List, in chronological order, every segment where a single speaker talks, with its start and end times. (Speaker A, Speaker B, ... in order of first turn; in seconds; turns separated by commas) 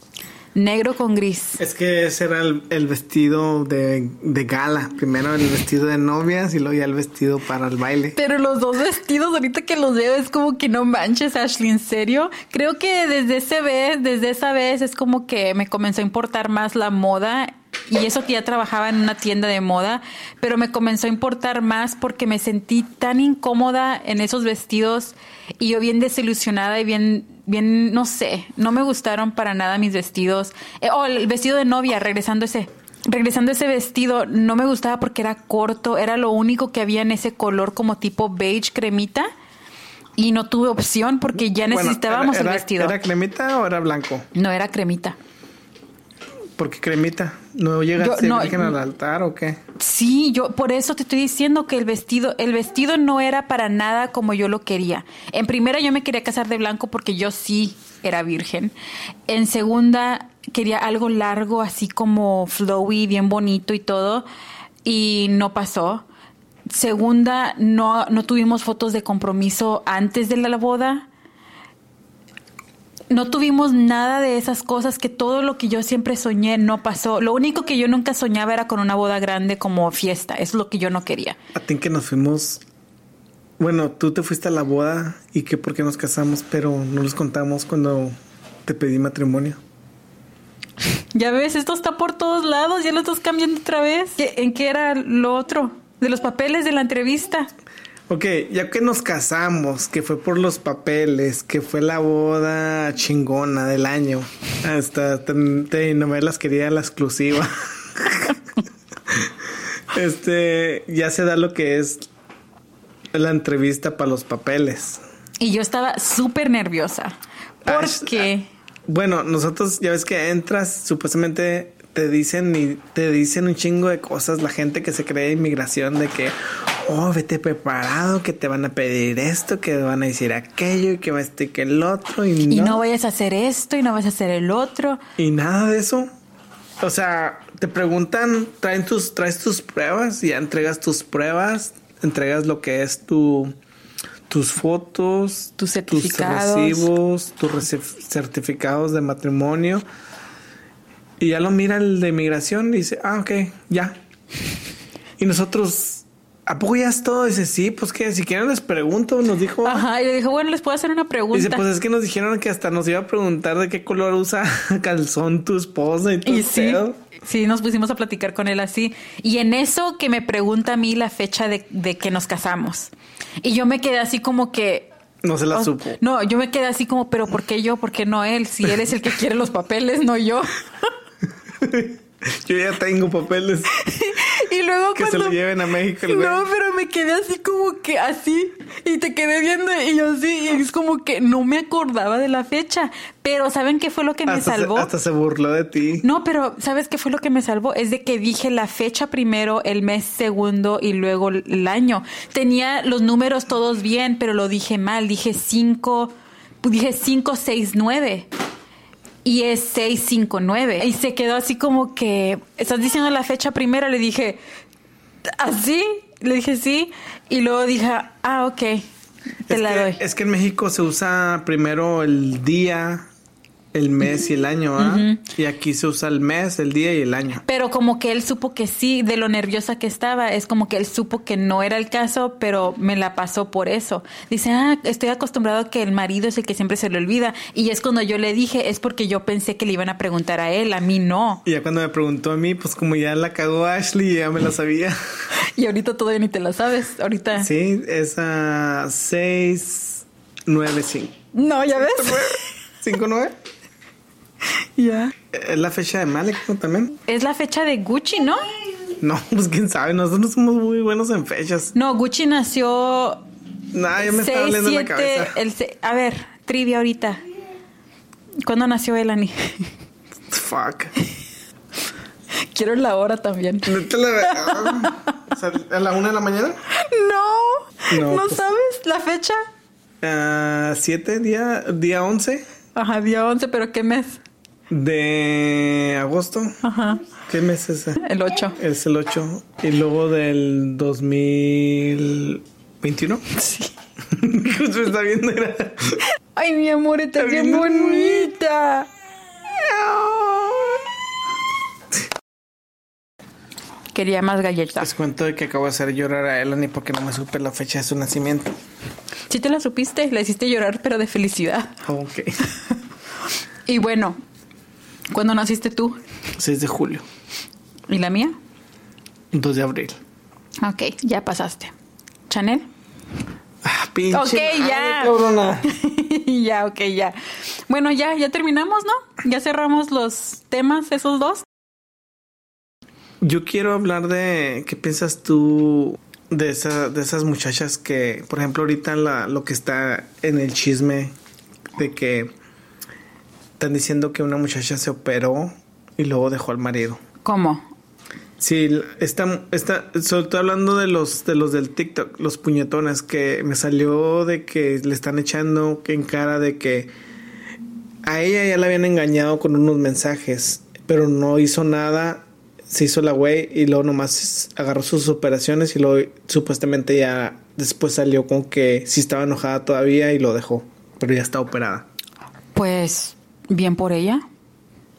Speaker A: 0.5-1.6, Speaker B: 1.6-8.2, Speaker A: 8.1-39.3, Speaker A: 40.2-43.0, Speaker B: 41.6-44.3, Speaker A: 44.3-45.2, Speaker B: 46.6-49.6, Speaker A: 48.0-48.7, Speaker A: 49.8-58.7, Speaker A: 59.3-64.2, Speaker A: 64.8-66.0, Speaker A: 66.7-71.1, Speaker A: 73.1-81.4, Speaker B: 81.5-82.6, Speaker B: 83.6-88.1, Speaker B: 88.7-89.6, Speaker A: 90.8-97.5, Speaker B: 98.1-108.4, Speaker B: 109.9-112.0, Speaker B: 113.1-115.0, Speaker A: 115.4-118.5, Speaker B: 117.6-118.3, Speaker B: 118.9-132.8, Speaker A: 132.5-135.0, Speaker B: 135.2-136.1, Speaker B: 136.8-143.5, Speaker B: 144.3-149.8, Speaker A: 145.6-146.9, Speaker B: 151.2-154.0, Speaker B: 155.2-159.8, Speaker A: 159.6-161.6, Speaker B: 161.3-167.0, Speaker A: 166.2-174.9, Speaker B: 175.2-176.0, Speaker A: 175.5-180.9, Speaker B: 181.6-183.8, Speaker A: 183.7-185.4, Speaker B: 184.9-186.4, Speaker A: 186.0-194.9, Speaker B: 194.3-196.1, Speaker A: 196.0-208.3, Speaker A: 209.2-214.4, Speaker A: 215.2-218.9, Speaker A: 219.5-220.0, Speaker B: 219.5-223.1, Speaker B: 223.7-227.4, Speaker A: 224.8-225.2, Speaker A: 227.4-241.4, Speaker B: 241.4-245.0, Speaker A: 245.3-247.5, Speaker B: 247.3-251.2, Speaker A: 251.3-252.4, Speaker B: 251.7-253.3, Speaker A: 254.6-255.1, Speaker B: 255.3-256.9, Speaker A: 257.1-258.5, Speaker B: 259.0-261.7, Speaker A: 261.7-263.2, Speaker B: 263.7-265.4, Speaker A: 264.0-267.2, Speaker A: 268.4-269.7, Speaker B: 270.3-270.9, Speaker A: 272.3-275.0, Speaker B: 273.6-276.6, Speaker A: 276.7-279.4, Speaker B: 277.9-278.4, Speaker B: 280.0-282.5, Speaker A: 282.7-284.2, Speaker B: 284.7-286.6, Speaker A: 286.6-287.0, Speaker B: 287.3-288.0, Speaker A: 288.0-288.6, Speaker B: 288.6-293.2, Speaker A: 293.3-293.7, Speaker B: 294.1-296.0, Speaker A: 296.3-298.9, Speaker B: 297.1-298.3, Speaker B: 299.5-300.8, Speaker A: 303.9-304.9, Speaker B: 304.8-308.5, Speaker A: 309.3-311.8, Speaker B: 311.8-312.4, Speaker A: 313.6-314.2, Speaker A: 315.1-316.0, Speaker B: 316.4-317.0, Speaker A: 317.9-318.3, Speaker B: 319.3-320.0, Speaker A: 320.6-321.7, Speaker A: 322.3-322.7, Speaker B: 323.6-325.7, Speaker A: 324.1-331.4, Speaker B: 333.2-341.1, Speaker B: 341.8-342.3, Speaker B: 343.6-347.0, Speaker A: 347.2-347.6, Speaker B: 348.4-356.9, Speaker B: 358.0-371.9, Speaker A: 372.5-374.2